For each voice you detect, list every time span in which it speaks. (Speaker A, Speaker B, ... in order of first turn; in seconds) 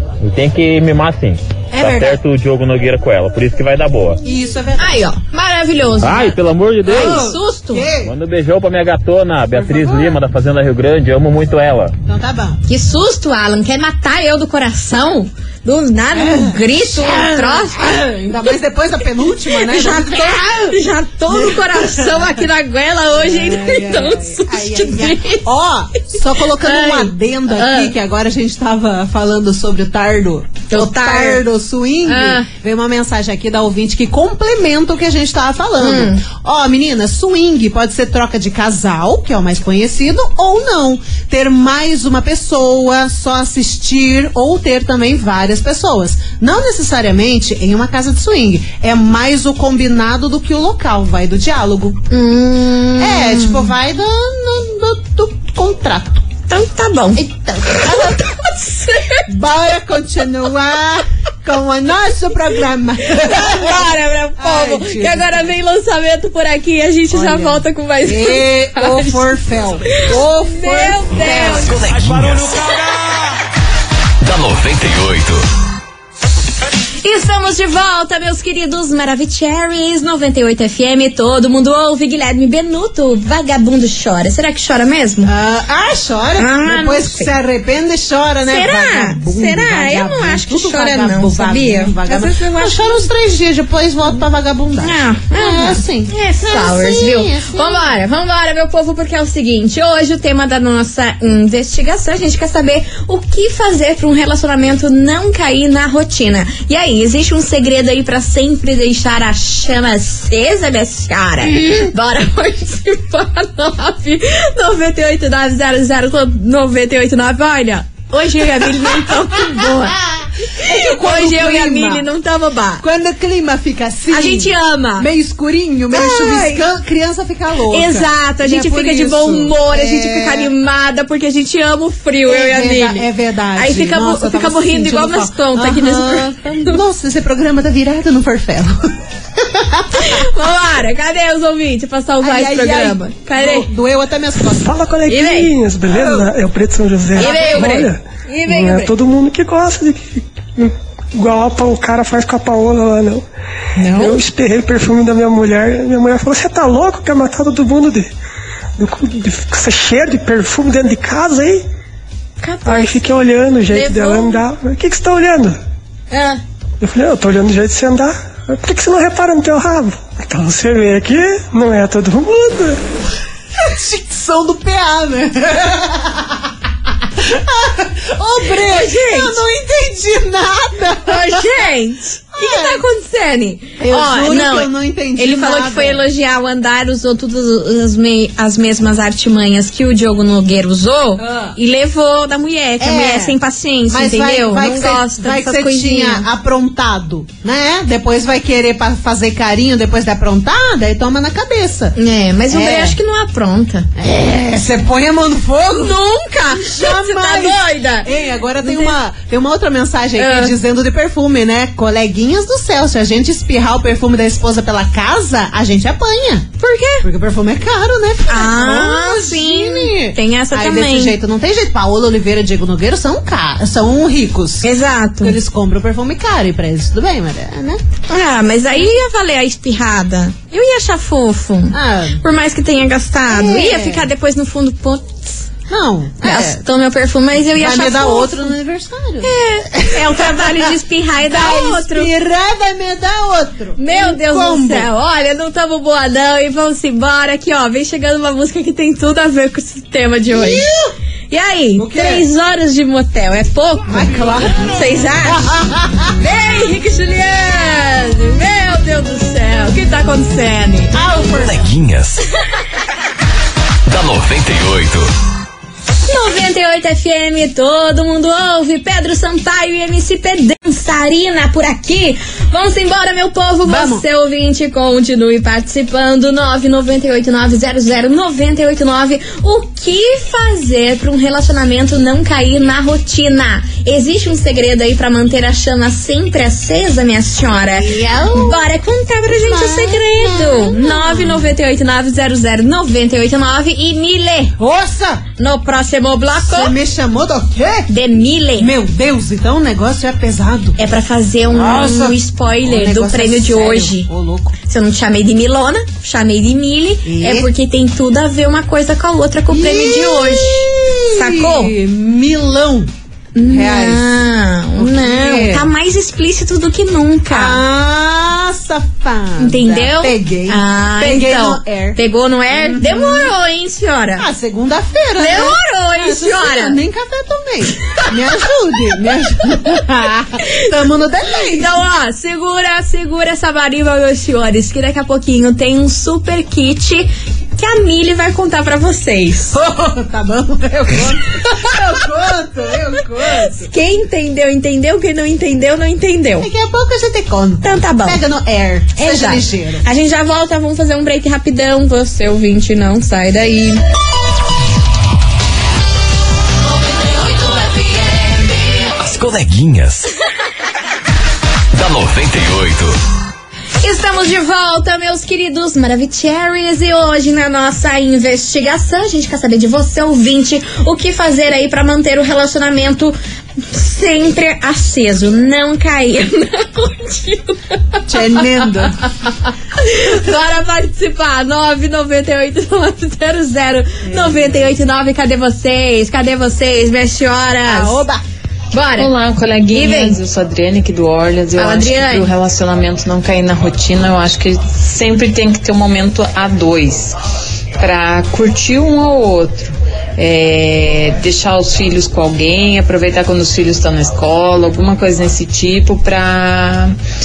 Speaker A: 0.2-4.2, 6.0-7.2, 8.0-11.9
Speaker B: 1.7-2.2, 4.2-5.1, 6.9-8.1, 9.5-10.2, 12.1-12.6, 16.1-22.4, 23.1-52.1, 53.0-56.3, 57.1-58.2, 59.3-65.5, 67.1-71.8, 85.2-97.9, 118.6-118.9, 120.6-122.0, 122.8-130.5, 132.2-140.3, 142.2-144.7, 145.9-146.2, 147.2-147.7, 173.6-176.5, 177.1-181.6, 182.3-182.8, 183.8-186.0, 191.2-191.6, 192.8-201.9, 202.5-203.0, 204.0-216.5, 217.0-224.7, 225.2-227.8, 231.7-232.2, 233.3-234.1, 235.7-236.6, 237.5-244.9, 250.3-250.9, 251.8-252.2, 253.9-256.1, 260.9-261.7, 273.6-274.1, 287.7-288.7, 289.4-291.5, 294.6-295.3, 296.4-297.9, 298.6-300.8, 301.5-304.5, 307.0-307.5, 309.5-312.9, 313.4-314.2, 314.8-315.7, 317.3-322.0, 322.5-323.3, 324.2-331.8, 339.5-343.7, 346.4-349.8, 378.1-379.0, 384.0-384.7, 387.6-388.2
Speaker C: 4.8-7.8, 12.7-18.0, 19.6-25.4, 26.6-27.9, 30.7-31.4, 32.0-32.5, 35.8-36.2, 52.1-53.7, 56.5-59.3, 63.1-69.3, 69.9-71.7, 77.0-85.3, 86.4-87.3, 88.5-93.0, 94.8-122.8, 124.1-125.1, 125.9-126.6, 127.7-136.8, 139.9-143.7, 145.1-145.5, 147.2-148.9, 153.8-154.2, 162.4-163.1, 163.7-164.4, 166.1-166.4, 178.5-179.4, 181.1-196.3, 201.9-203.9, 205.8-208.1, 208.6-208.9, 210.2-210.5, 216.6-217.1, 218.3-221.1, 224.6-225.4, 228.1-235.4, 236.2-238.5, 239.2-242.1, 243.8-250.7, 251.3-255.5, 256.2-261.0, 266.1-294.5, 295.4-296.8, 297.9-298.7, 300.8-304.1, 304.6-311.7, 313.3-317.6, 319.4-324.3, 325.2-326.8, 331.4-339.6, 343.3-346.5, 347.6-348.2, 348.9-353.8, 363.8-378.8, 379.8-388.0, 388.7-389.1, 389.7-390.2, 391.6-392.3
Speaker D: 71.3-72.8, 74.2-75.4, 261.3-262.2, 263.9-265.1, 358.9-360.1, 361.7-363.0
Speaker E: 144.5-153.2, 153.9-158.1, 158.8-161.6, 162.6-165.6, 166.8-172.8
Speaker F: 389.0-397.2, 397.8-406.9